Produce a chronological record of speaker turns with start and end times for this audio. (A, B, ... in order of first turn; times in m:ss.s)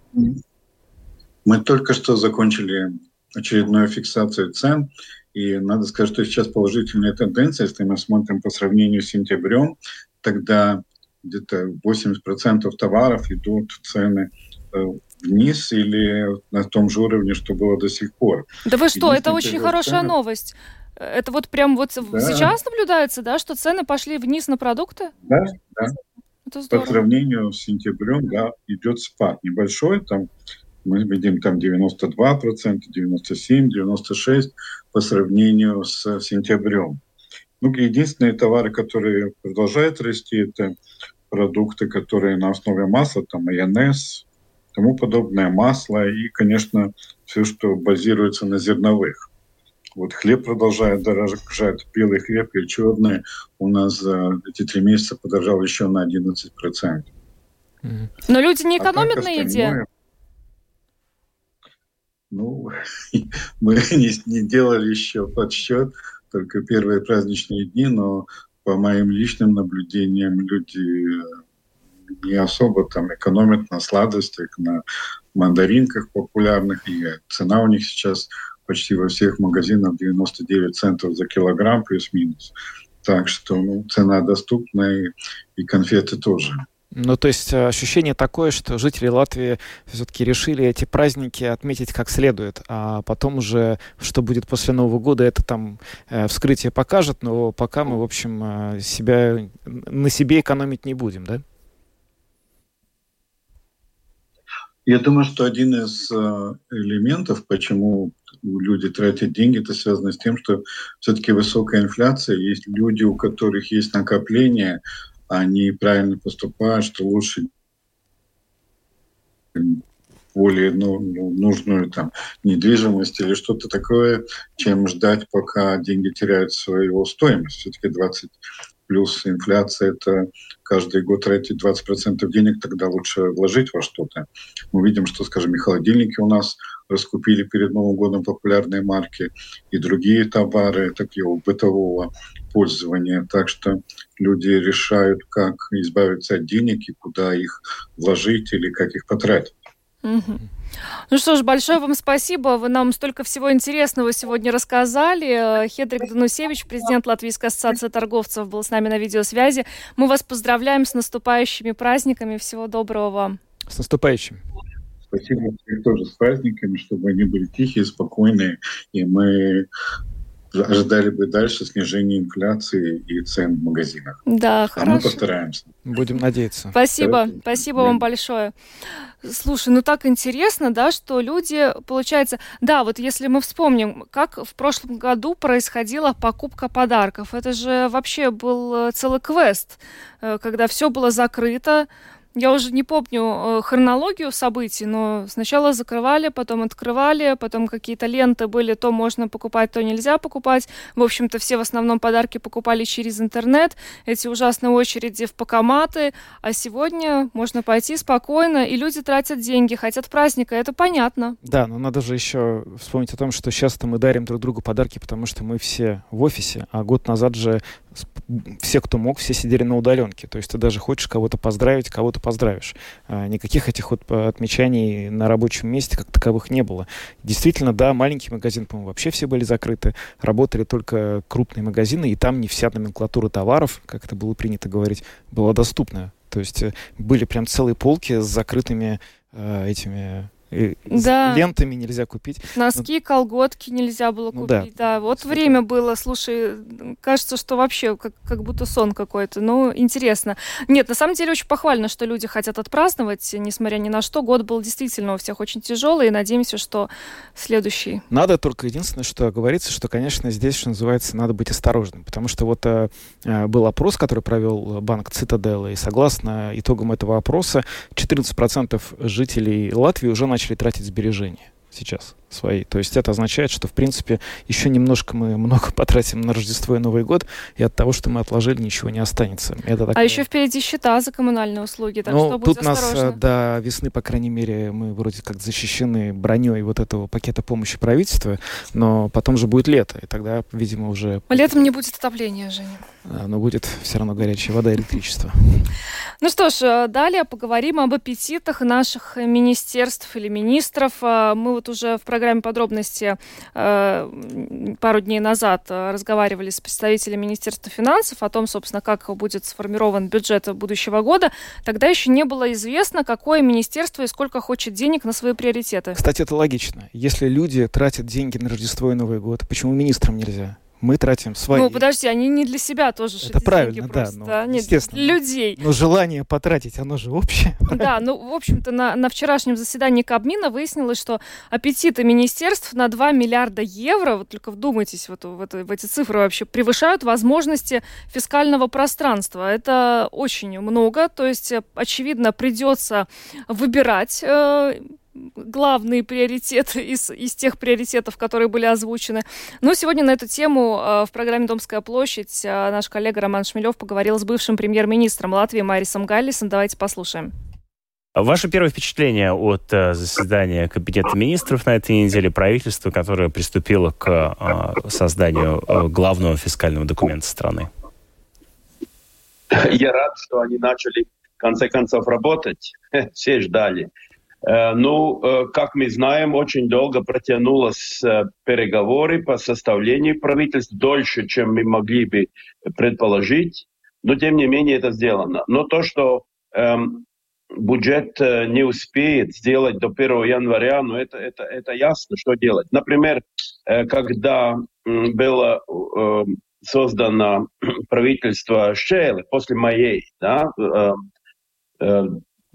0:01.5-0:20.2 A
0:18.6-0:25.1 B
0:22.1-0:22.5 A
0:25.3-0:25.9 A
0:26.5-0:27.0 B
0:26.7-0:30.3 A
0:30.8-0:37.0 A
0:37.6-0:40.8 A
0:41.3-0:44.2 A
0:44.8-0:49.3 A
0:50.0-0:57.1 A
0:58.3-0:59.8 B
0:58.8-0:59.8 A
1:02.3-1:11.3 A
1:12.2-1:14.8 A
1:15.4-1:22.5 A
1:23.0-1:26.6 A
1:26.9-1:41.4 C
1:44.9-1:57.5 A
1:59.6-1:59.8 A
2:00.4-2:29.5 A
2:30.0-2:30.4 B
2:31.1-2:43.4 B
2:43.7-2:44.4 C
2:45.1-2:49.7 A
2:50.5-2:54.2 A
2:54.3-2:55.2 B
2:54.8-2:55.7 A
2:55.9-2:56.8 C
2:56.7-2:58.5 B
2:57.0-2:58.0 A
2:59.2-3:31.4 B
3:31.4-4:02.8 C
4:00.9-4:01.4 B
4:02.6-4:18.0 B
4:04.3-4:05.6 C
4:18.1-4:40.2 C
4:40.0-4:43.2 B
4:42.0-4:51.7 C
4:51.3-4:52.8 B
4:53.0-4:55.7 C
4:56.2-5:16.0 B
5:15.9-5:21.8 C
5:21.5-5:25.6 B
5:23.2-5:27.9 C
5:27.7-5:57.3 B
5:58.2-6:07.7 D
6:09.5-6:13.9 E
6:14.5-6:41.0 E
6:41.8-6:42.2 E